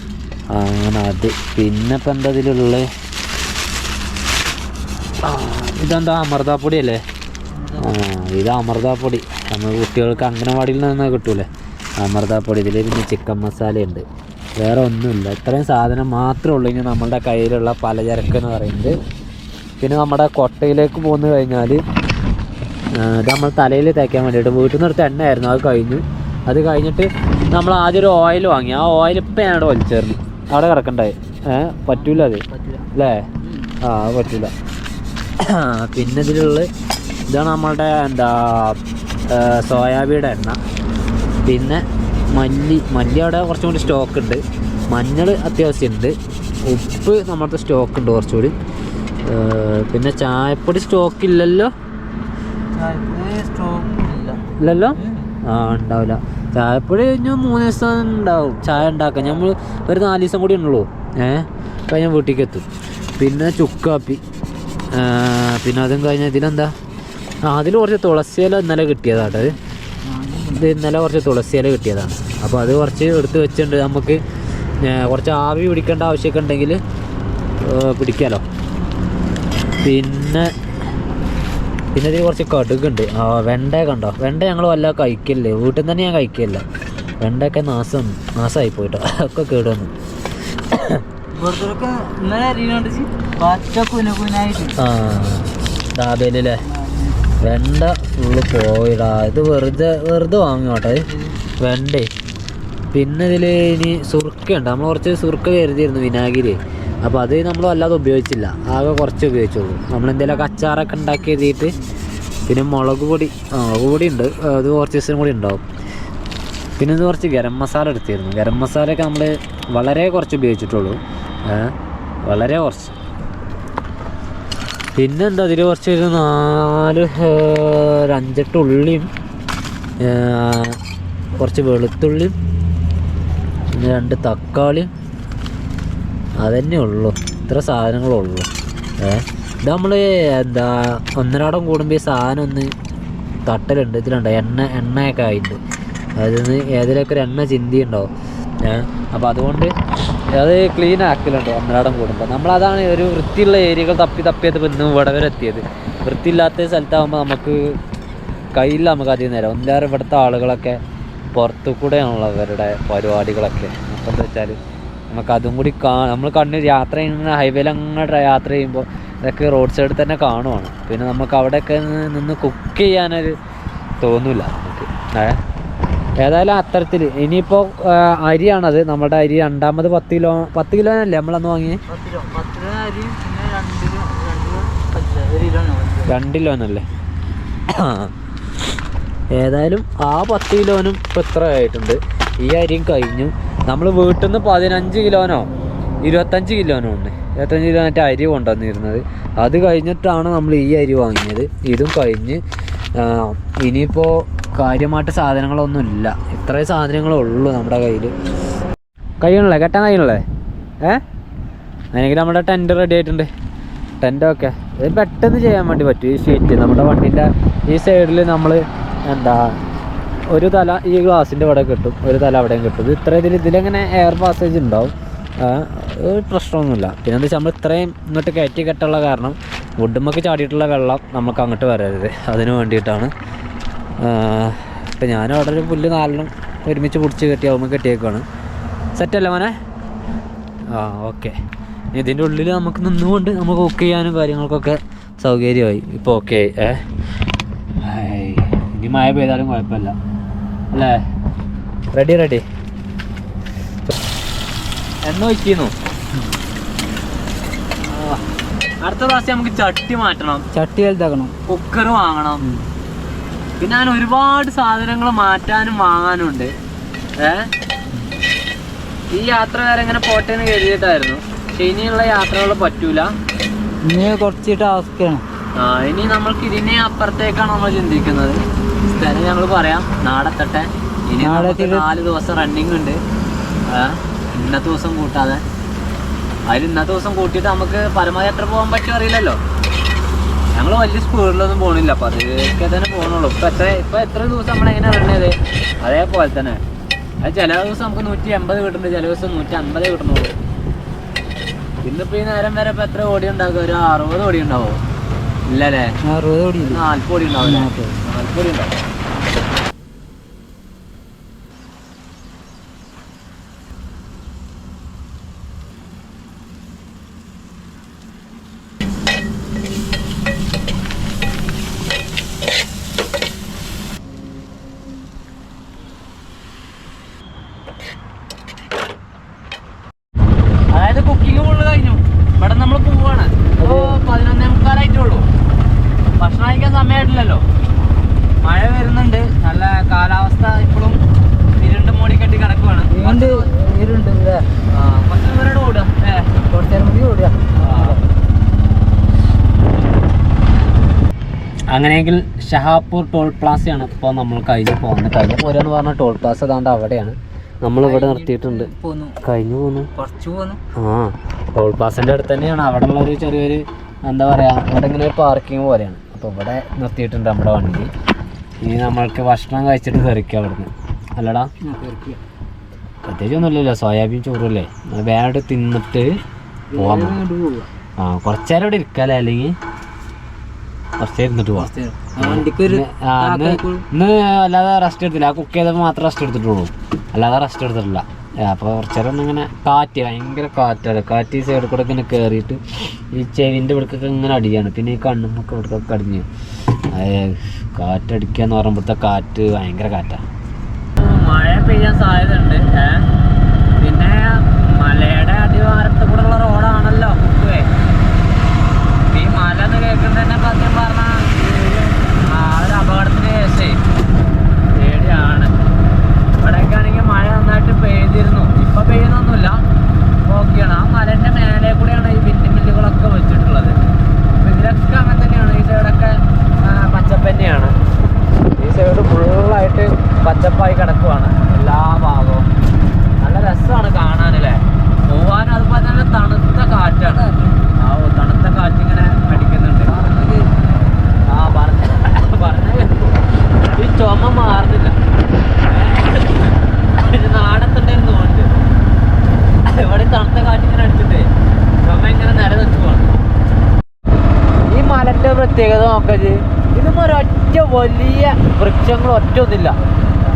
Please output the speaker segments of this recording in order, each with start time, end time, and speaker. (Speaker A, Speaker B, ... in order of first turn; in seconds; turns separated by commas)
Speaker A: 0.5-2.9, Speaker A: 5.2-7.0, Speaker B: 7.5-8.1, Speaker A: 7.8-11.5, Speaker A: 12.0-18.9, Speaker A: 19.8-21.8, Speaker A: 22.9-33.3, Speaker B: 31.9-32.9, Speaker B: 33.4-33.7, Speaker A: 33.8-34.5, Speaker A: 35.4-36.7, Speaker A: 37.3-40.6, Speaker A: 41.5-48.5, Speaker A: 49.2-51.7, Speaker B: 52.8-55.3, Speaker A: 54.6-62.6, Speaker A: 63.2-64.2, Speaker A: 64.9-66.7, Speaker A: 67.5-69.6, Speaker B: 70.0-70.7, Speaker A: 70.5-74.2, Speaker A: 74.8-76.8, Speaker A: 77.6-78.4, Speaker A: 79.8-80.5, Speaker A: 81.9-86.6, Speaker A: 87.2-89.9, Speaker A: 90.7-91.0, Speaker B: 91.3-94.8, Speaker A: 94.8-96.6, Speaker B: 96.7-97.2, Speaker A: 97.4-101.0, Speaker B: 101.1-101.4, Speaker A: 101.6-102.1, Speaker A: 102.9-111.8, Speaker A: 112.5-115.6, Speaker A: 116.8-122.9, Speaker A: 124.9-129.1, Speaker A: 130.0-130.8, Speaker A: 131.4-132.3, Speaker A: 133.7-134.9, Speaker A: 136.4-138.5, Speaker A: 139.0-142.7, Speaker A: 143.4-145.6, Speaker A: 146.2-148.1, Speaker A: 148.6-149.7, Speaker A: 150.3-157.8, Speaker A: 158.5-160.8, Speaker A: 161.3-164.6, Speaker A: 165.1-173.3, Speaker A: 174.0-175.4, Speaker A: 176.2-181.8, Speaker B: 181.9-186.2, Speaker A: 186.1-186.8, Speaker A: 187.7-188.1, Speaker A: 189.3-195.5, Speaker A: 196.0-202.4, Speaker A: 202.9-208.1, Speaker A: 209.2-210.2, Speaker A: 211.9-213.3, Speaker A: 214.0-219.6, Speaker A: 220.3-233.1, Speaker A: 234.0-238.2, Speaker A: 238.9-239.5, Speaker A: 240.7-241.3, Speaker A: 241.9-246.8, Speaker A: 247.8-249.9, Speaker A: 250.7-251.0, Speaker A: 251.9-252.4, Speaker A: 255.0-255.7, Speaker A: 257.9-258.2, Speaker A: 258.8-260.4, Speaker B: 260.5-261.3, Speaker A: 261.4-262.4, Speaker A: 263.6-266.5, Speaker A: 267.2-267.5, Speaker A: 269.1-273.1, Speaker B: 273.8-275.2, Speaker A: 275.6-283.0, Speaker B: 281.2-281.9, Speaker A: 283.7-285.4, Speaker A: 286.5-289.4, Speaker A: 290.5-296.6, Speaker A: 297.2-300.3, Speaker A: 301.8-304.8, Speaker A: 305.5-306.0, Speaker B: 306.0-306.8, Speaker A: 306.6-308.7, Speaker B: 307.4-308.0, Speaker A: 330.7-335.2, Speaker B: 333.6-334.0, Speaker A: 336.2-337.4, Speaker A: 338.4-341.0, Speaker A: 341.6-343.5, Speaker B: 342.9-344.4, Speaker A: 344.7-346.3, Speaker B: 346.4-348.1, Speaker A: 347.6-348.0, Speaker A: 351.7-358.7, Speaker B: 357.8-359.2, Speaker A: 359.2-359.9, Speaker B: 359.9-360.6, Speaker A: 360.7-367.9, Speaker A: 368.6-371.5, Speaker B: 371.6-372.2, Speaker A: 373.0-376.2, Speaker B: 376.7-377.7, Speaker A: 376.7-377.2, Speaker A: 378.0-379.6, Speaker A: 381.0-392.6, Speaker B: 381.5-383.9, Speaker A: 393.1-396.3, Speaker A: 396.9-400.2, Speaker A: 401.0-403.1, Speaker A: 403.8-407.7, Speaker A: 409.1-413.8, Speaker A: 414.7-415.5, Speaker A: 416.4-419.6, Speaker A: 420.2-423.8, Speaker A: 424.3-427.7, Speaker A: 428.6-432.5, Speaker A: 433.2-440.0, Speaker B: 437.1-437.7, Speaker B: 439.9-440.7, Speaker A: 441.3-444.9, Speaker A: 445.6-448.5, Speaker A: 449.7-451.3, Speaker A: 451.8-453.1, Speaker A: 454.7-459.8, Speaker B: 459.8-460.1